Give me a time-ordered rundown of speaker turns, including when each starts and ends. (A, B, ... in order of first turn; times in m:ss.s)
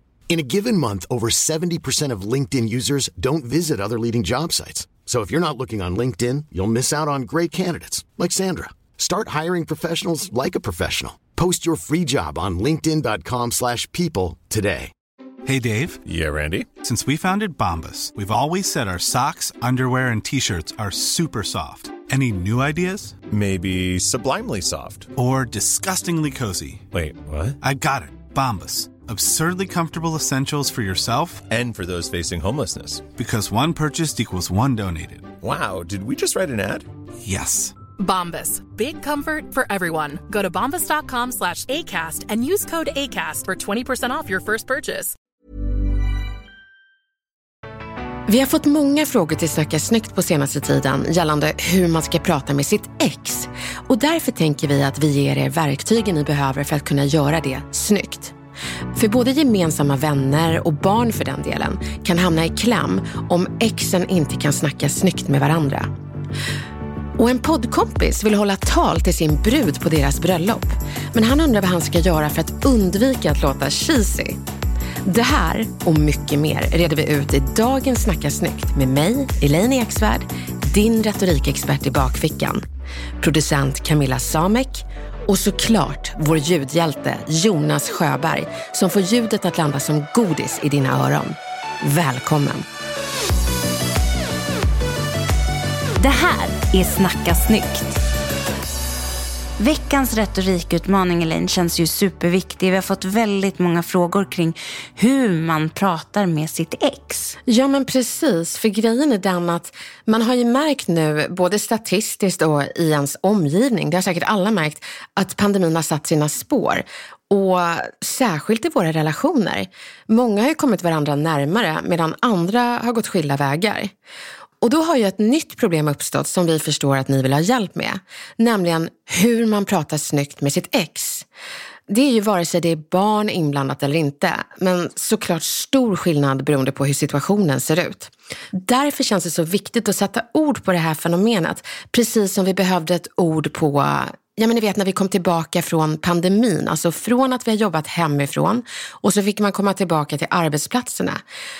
0:00.3-0:14.9 A
0:15.4-0:16.0 B
0:16.1-0:16.7 C
0:16.8-0:23.2 B
0:23.3-0:25.1 C
0:25.2-0:26.8 B
0:26.9-0:27.6 C
0:27.6-0:31.4 B
0:31.5-0:33.1 C
0:33.2-0:35.3 B
0:35.4-0:36.9 C
0:37.2-0:37.8 B
0:38.0-0:45.2 D
0:48.3-0:58.4 E
0:58.9-1:05.9 E
1:07.2-1:14.4 E
1:15.0-1:22.7 E
1:23.2-1:32.7 E
1:36.0-1:38.0 F
1:39.6-1:47.4 F
1:47.5-2:03.9 E
2:04.6-2:11.3 E
2:11.9-2:31.2 E